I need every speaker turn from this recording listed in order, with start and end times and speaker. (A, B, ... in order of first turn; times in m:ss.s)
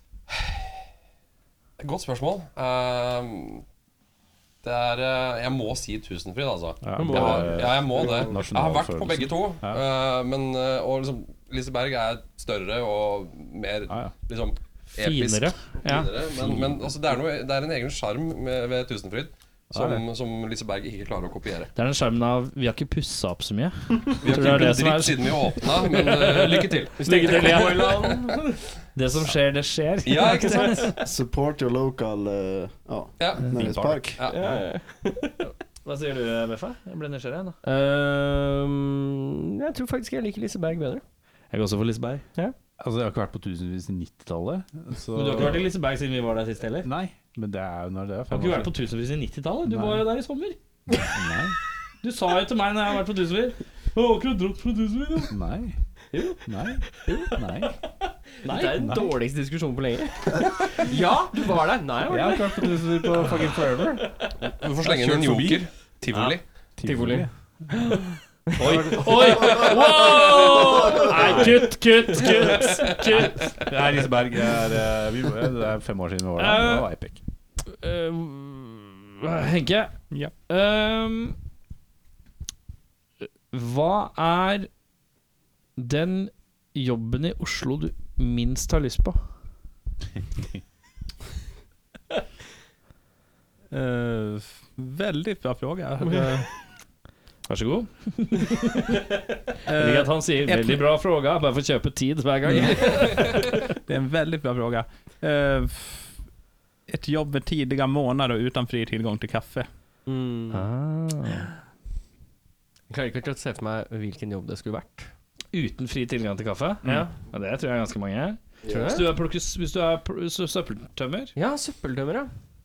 0:01.8-0:03.6 A
0:04.6-0:21.7 A
0:06.8-0:09.8 B
0:07.0-0:07.5 C
0:15.0-0:16.1 D
0:16.4-0:16.8 B
0:19.7-0:20.0 B
0:21.8-0:28.2 D
0:24.2-0:27.6 A
0:26.9-0:28.4 C
0:28.9-0:31.0 D
0:30.0-0:31.0 A
0:30.9-0:34.2 E
0:33.2-0:33.6 A
0:33.6-0:33.9 D
0:33.6-0:34.0 B
0:34.1-0:34.6 A
0:34.3-0:35.4 C
0:35.8-0:37.6 D
0:37.6-0:41.0 C
0:41.5-0:42.2 D
0:42.8-0:45.7 B
0:45.1-0:46.9 D
0:46.8-0:48.7 B
0:48.3-0:50.6 D
0:49.6-0:50.1 B
0:51.0-0:51.6 B
0:52.0-0:55.3 D
0:55.3-0:55.8 B
0:56.4-0:57.8 B
0:58.4-0:59.0 D
0:58.4-1:02.8 C
0:58.8-0:59.1 B
1:02.1-1:04.1 B
1:04.5-1:06.4 A
1:04.8-1:05.7 B
1:06.8-1:07.8 B
1:06.8-1:09.1 C
1:08.6-1:13.6 D
1:08.6-1:09.3 B
1:08.6-1:10.5 A
1:09.3-1:11.3 E
1:10.3-1:10.8 C
1:12.7-1:13.2 A
1:13.6-1:17.2 B
1:16.4-1:16.9 D
1:17.7-1:21.4 D
1:23.5-1:24.7 D
1:25.8-1:29.2 D
1:33.7-1:36.5 F
1:37.5-1:43.7 D
1:39.6-1:40.8 F
1:42.5-1:43.4 F
1:43.9-1:46.1 F
1:46.9-1:49.7 F
1:50.0-1:50.6 C
1:50.5-1:51.5 D
1:52.9-1:55.1 C
1:55.5-2:01.3 D
1:56.8-1:57.1 C
1:58.6-1:59.1 E
1:58.7-1:59.1 C
2:01.4-2:02.3 C